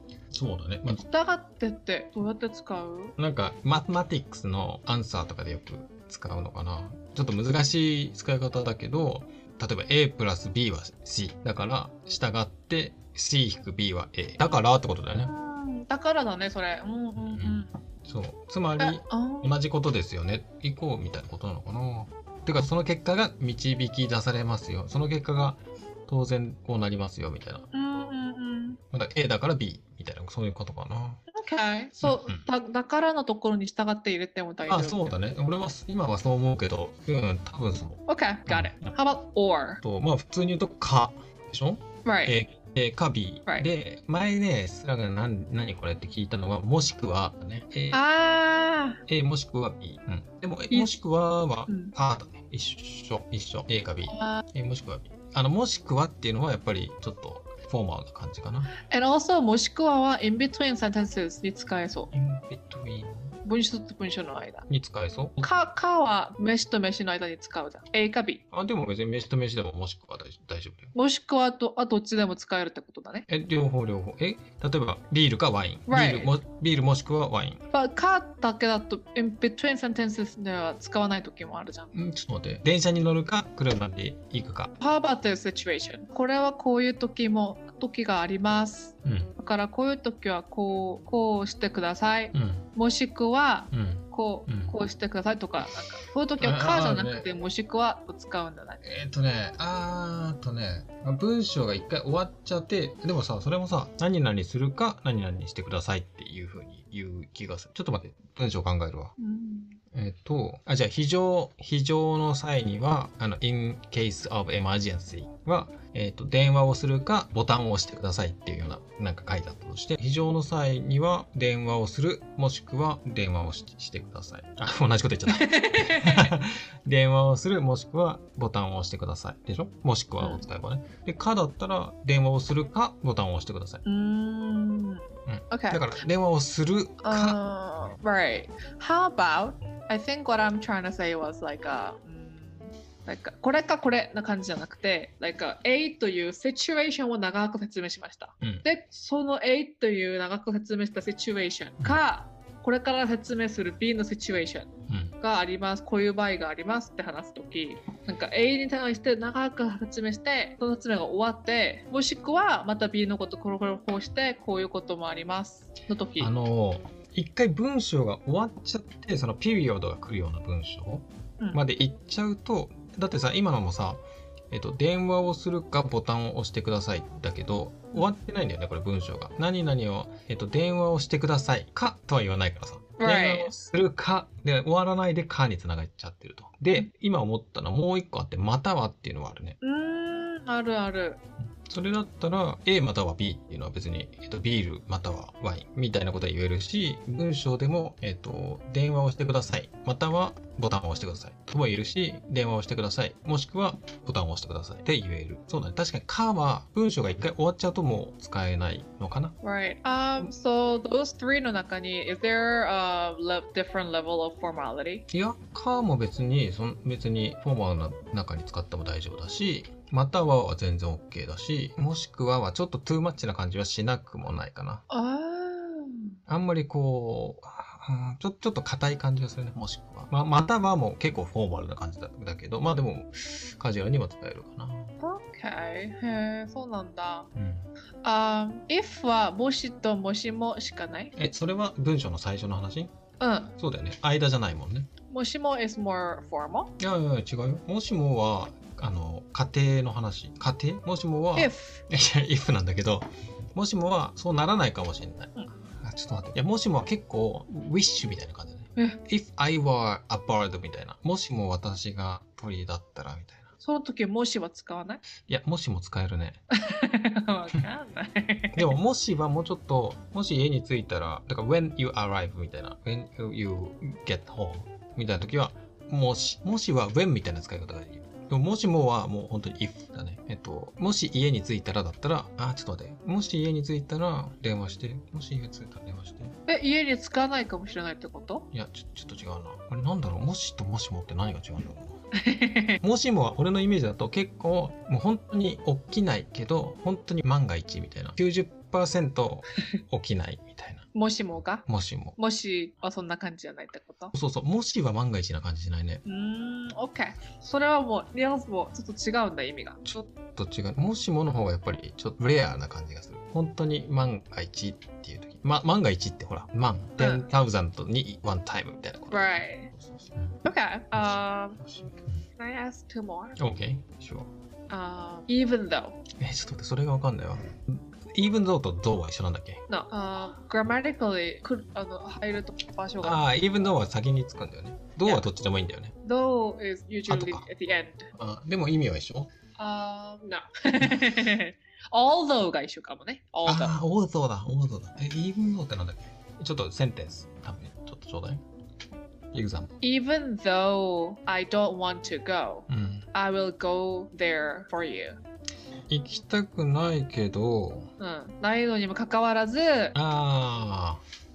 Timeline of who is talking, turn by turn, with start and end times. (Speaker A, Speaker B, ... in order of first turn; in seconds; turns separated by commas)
Speaker A: 0.3-1.0, Speaker B: 0.9-3.1, Speaker A: 3.2-15.3, Speaker B: 15.1-17.7, Speaker A: 17.2-27.7, Speaker B: 18.8-19.5, Speaker B: 27.7-28.8, Speaker A: 28.9-31.2, Speaker B: 31.3-35.2, Speaker A: 32.0-32.5, Speaker A: 34.7-38.9, Speaker B: 38.1-39.8, Speaker A: 39.8-48.0, Speaker B: 42.0-42.4, Speaker B: 47.9-49.0, Speaker A: 49.1-58.7, Speaker B: 51.7-51.9, Speaker B: 54.0-54.4, Speaker B: 58.8-62.1, Speaker A: 62.1-63.3, Speaker B: 63.4-64.7, Speaker A: 64.7-65.5, Speaker B: 65.4-68.4, Speaker A: 68.5-70.9, Speaker B: 70.9-73.2, Speaker A: 73.3-77.6, Speaker B: 75.9-76.3, Speaker B: 77.7-81.9, Speaker A: 81.9-84.7, Speaker B: 84.8-98.8, Speaker A: 89.0-89.3, Speaker A: 92.3-92.7, Speaker A: 93.7-94.8, Speaker A: 96.4-97.3, Speaker A: 98.8-109.1, Speaker B: 109.2-109.8, Speaker A: 109.9-133.8, Speaker B: 125.3-126.3, Speaker B: 130.2-130.4, Speaker B: 133.8-136.0, Speaker A: 135.3-137.4, Speaker B: 137.0-154.7, Speaker A: 148.4-148.7, Speaker A: 154.9-155.1, Speaker B: 155.2-166.3, Speaker A: 166.2-189.6, Speaker B: 183.0-183.5, Speaker B: 189.6-191.2, Speaker A: 191.5-209.3, Speaker B: 209.4-215.0, Speaker A: 215.1-224.8, Speaker B: 224.9-226.2, Speaker A: 226.3-234.9, Speaker B: 235.0-237.3, Speaker A: 237.3-237.7, Speaker B: 238.0-241.1, Speaker A: 241.2-242.9, Speaker B: 243.2-243.5, Speaker A: 243.6-244.9, Speaker B: 245.1-246.7, Speaker A: 246.8-263.5, Speaker B: 251.3-251.8, Speaker B: 263.6-265.0, Speaker A: 265.2-266.4, Speaker B: 266.6-268.7, Speaker A: 268.5-286.3, Speaker B: 286.5-288.5, Speaker A: 288.5-292.0, Speaker B: 292.1-292.8, Speaker A: 292.8-302.2, Speaker B: 300.9-301.6, Speaker B: 302.2-304.1, Speaker A: 304.1-306.0, Speaker B: 306.0-309.8, Speaker A: 309.8-320.4, Speaker B: 317.0-317.2, Speaker B: 319.1-319.7, Speaker B: 320.4-321.6, Speaker A: 320.9-322.2, Speaker B: 322.4-323.4, Speaker A: 323.4-324.3, Speaker B: 324.7-326.0, Speaker A: 326.2-329.6, Speaker B: 329.7-333.2, Speaker A: 333.0-335.9, Speaker B: 336.0-338.1, Speaker A: 337.1-337.4, Speaker A: 338.1-339.3, Speaker B: 339.6-343.7, Speaker A: 343.4-348.4, Speaker A: 349.3-349.7, Speaker B: 349.8-355.2, Speaker A: 352.7-353.1, Speaker A: 355.9-357.9, Speaker B: 358.0-359.9, Speaker A: 359.9-361.0